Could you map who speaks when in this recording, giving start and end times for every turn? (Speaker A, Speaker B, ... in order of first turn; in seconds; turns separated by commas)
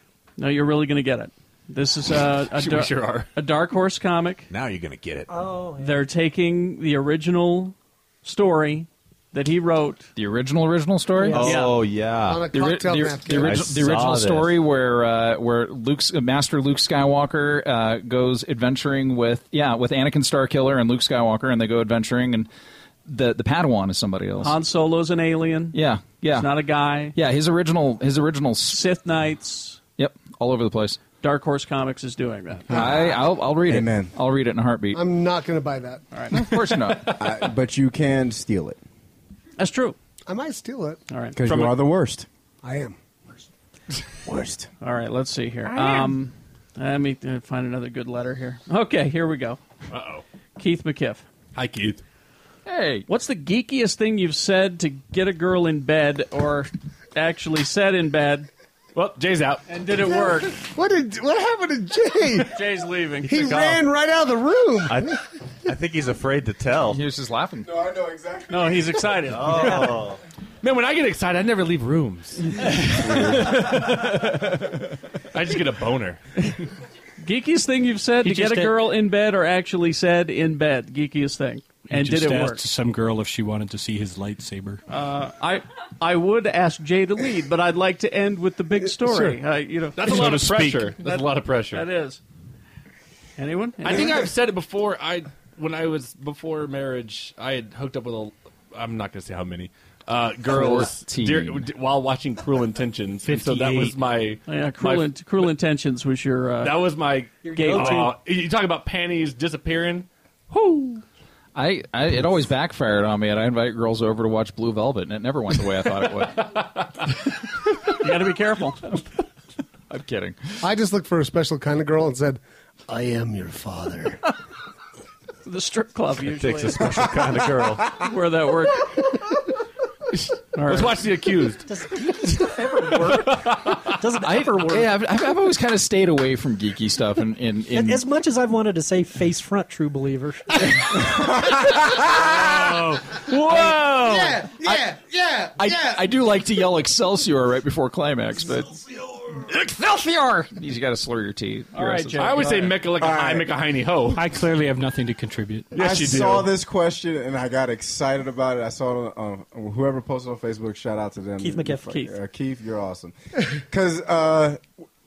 Speaker A: 0.4-4.5, Speaker B: 2.5-3.3, Speaker C: 4.5-5.3, Speaker D: 5.3-6.0, Speaker A: 5.8-10.1, Speaker E: 10.2-11.6, Speaker C: 11.3-12.6, Speaker A: 11.3-11.7, Speaker F: 12.2-13.7, Speaker E: 12.5-22.5, Speaker C: 13.3-14.6, Speaker E: 23.1-24.6, Speaker A: 24.4-25.8, Speaker E: 25.7-26.5, Speaker A: 26.3-27.2, Speaker E: 27.1-28.8, Speaker A: 28.7-29.8, Speaker E: 30.0-31.0, Speaker A: 31.2-32.8, Speaker E: 32.7-35.0, Speaker G: 33.7-34.1, Speaker F: 34.9-36.1, Speaker A: 36.1-36.4, Speaker E: 36.3-37.3, Speaker G: 37.1-38.8, Speaker A: 39.6-40.0, Speaker F: 40.3-41.0, Speaker A: 41.1-41.4, Speaker G: 41.4-42.3, Speaker B: 41.5-41.8, Speaker F: 42.6-43.0, Speaker G: 44.2-44.7, Speaker A: 44.8-49.6, Speaker B: 45.7-46.0, Speaker B: 49.9-50.2, Speaker A: 50.6-51.2, Speaker B: 51.5-52.0, Speaker E: 52.7-53.0, Speaker A: 53.1-58.5, Speaker B: 59.0-59.6, Speaker A: 59.7-60.6, Speaker F: 60.1-62.6, Speaker A: 62.4-63.7, Speaker F: 63.2-65.2, Speaker C: 64.9-67.0, Speaker E: 66.9-67.7, Speaker G: 67.6-69.3, Speaker A: 68.5-70.0, Speaker C: 69.2-70.2, Speaker B: 70.6-72.6, Speaker B: 73.5-74.2, Speaker B: 75.3-76.2, Speaker A: 77.2-82.6, Speaker H: 78.2-78.8, Speaker H: 81.9-84.8, Speaker A: 84.9-92.2, Speaker F: 89.0-89.4, Speaker B: 90.0-91.8, Speaker H: 90.2-90.7, Speaker A: 93.4-94.2, Speaker B: 93.8-105.1, Speaker E: 100.5-101.7, Speaker H: 103.2-104.0, Speaker A: 104.5-106.8, Speaker B: 106.6-110.1, Speaker A: 107.4-108.2, Speaker D: 107.5-108.1, Speaker A: 110.5-111.0, Speaker E: 111.5-116.5, Speaker A: 118.0-118.9, Speaker E: 119.9-120.6, Speaker F: 120.6-124.2, Speaker A: 125.5-126.9, Speaker C: 126.3-128.0, Speaker A: 128.0-128.9, Speaker B: 130.2-131.7, Speaker A: 130.6-131.0, Speaker D: 131.7-134.9, Speaker B: 132.9-133.9, Speaker E: 134.1-138.1, Speaker D: 137.7-141.0, Speaker B: 142.3-144.3, Speaker E: 143.5-143.9, Speaker F: 143.6-146.1, Speaker E: 145.6-152.6, Speaker A: 151.7-152.8, Speaker B: 152.2-154.3, Speaker G: 153.0-153.5, Speaker H: 154.1-155.7, Speaker B: 155.7-156.5, Speaker G: 155.8-164.6, Speaker D: 161.4-162.0, Speaker A: 161.9-162.1